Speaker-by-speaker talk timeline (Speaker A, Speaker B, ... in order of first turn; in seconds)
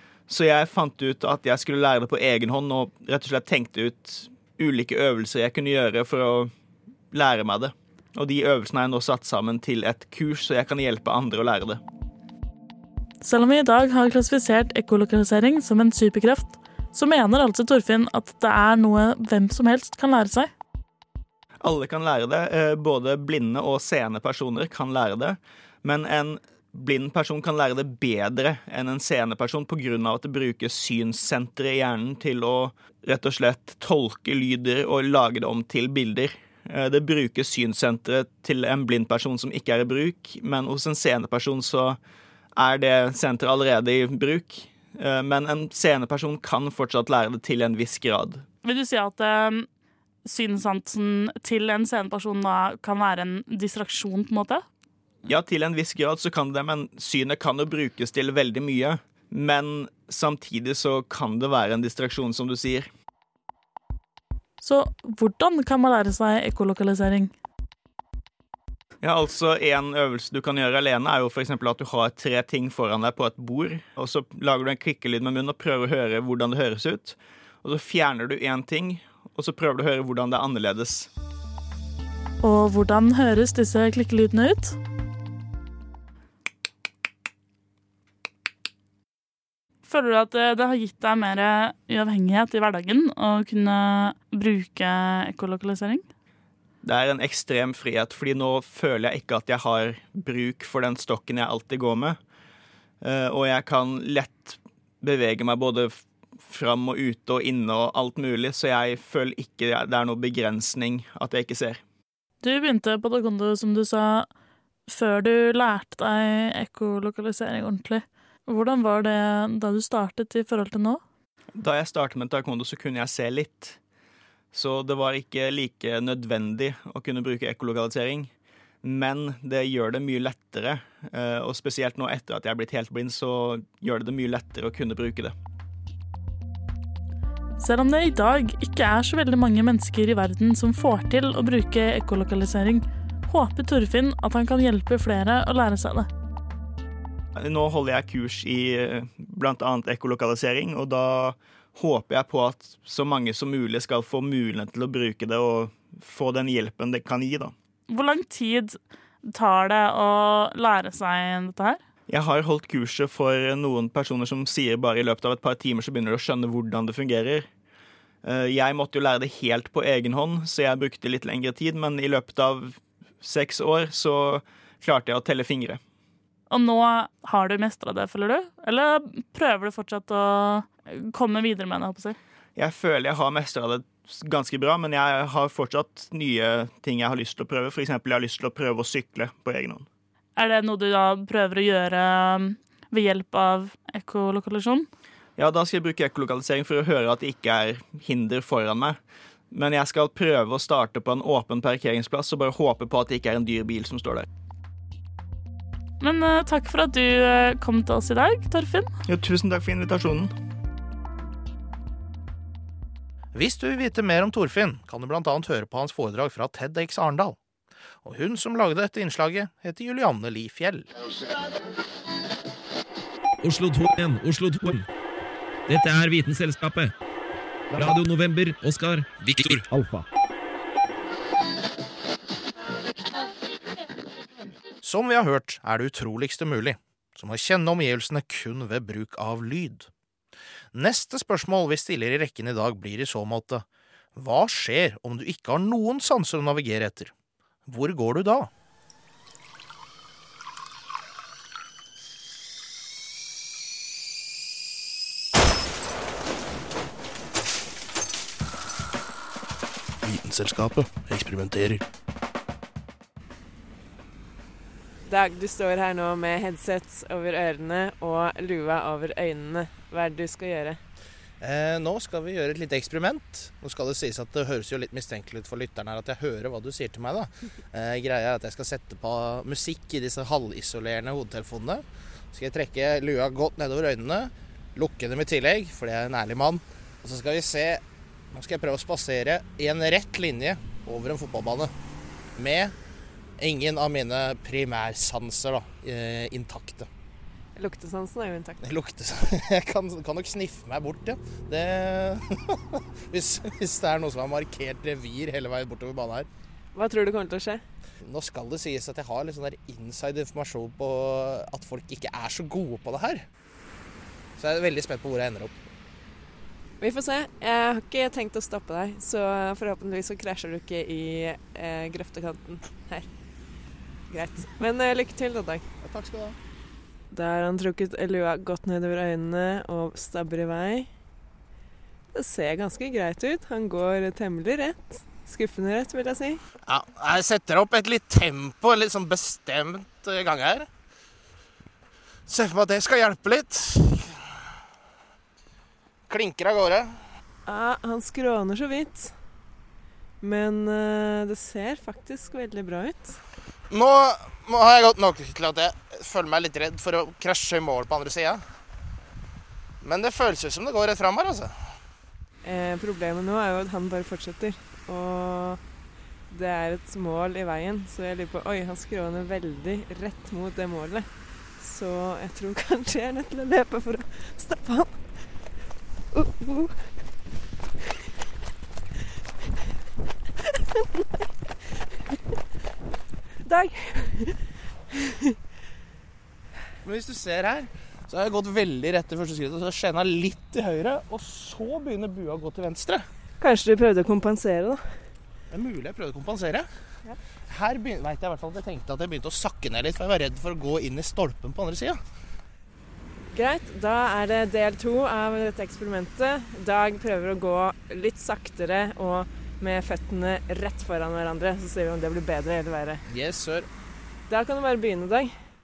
Speaker A: 0.3-6.5, 7.1-11.8, 21.6-42.0, 42.6-48.4, 55.2-62.9, 69.0-81.1, 96.8-102.2, 103.0-111.8, 121.5-123.8, 124.5-128.3, 128.8-135.3, 147.3-157.5, 162.1-167.5, 168.2-175.8, 182.6-189.9, 195.4-199.0, 199.5-204.3, 209.1-210.3
Speaker B: 13.2-20.5, 48.6-49.7, 50.2-54.6, 64.6-67.3, 82.4-84.8, 89.8-96.0, 112.4-114.3, 114.9-121.0, 137.6-146.1, 157.9-161.8, 176.5-182.2, 190.4-194.9, 206.0-208.9
Speaker C: 213.3-217.4, 218.0-220.9, 234.8-239.9, 240.7-243.6, 244.2-247.1, 247.7-248.5, 260.0-261.8, 271.4-291.7, 292.4-292.7, 293.4-296.9, 298.6-306.3, 308.0-313.2, 314.4-315.5, 325.8-326.4, 336.7-340.7, 342.3-344.1, 346.1-347.0, 353.7-358.4, 359.8-361.6, 386.8-393.1, 395.5-396.7, 397.5-402.0, 413.1-413.7
Speaker D: 223.4-224.8, 225.7-226.9, 227.7-230.1
Speaker E: 265.0-270.8, 297.6-298.6, 306.7-307.6, 316.8-323.1, 324.1-325.6, 327.1-330.9, 332.1-336.4, 347.4-349.1, 350.2-353.2, 362.4-365.6, 366.3-375.1, 376.1-376.8, 383.4-384.4, 393.4-395.0, 403.3-413.0, 414.3-415.3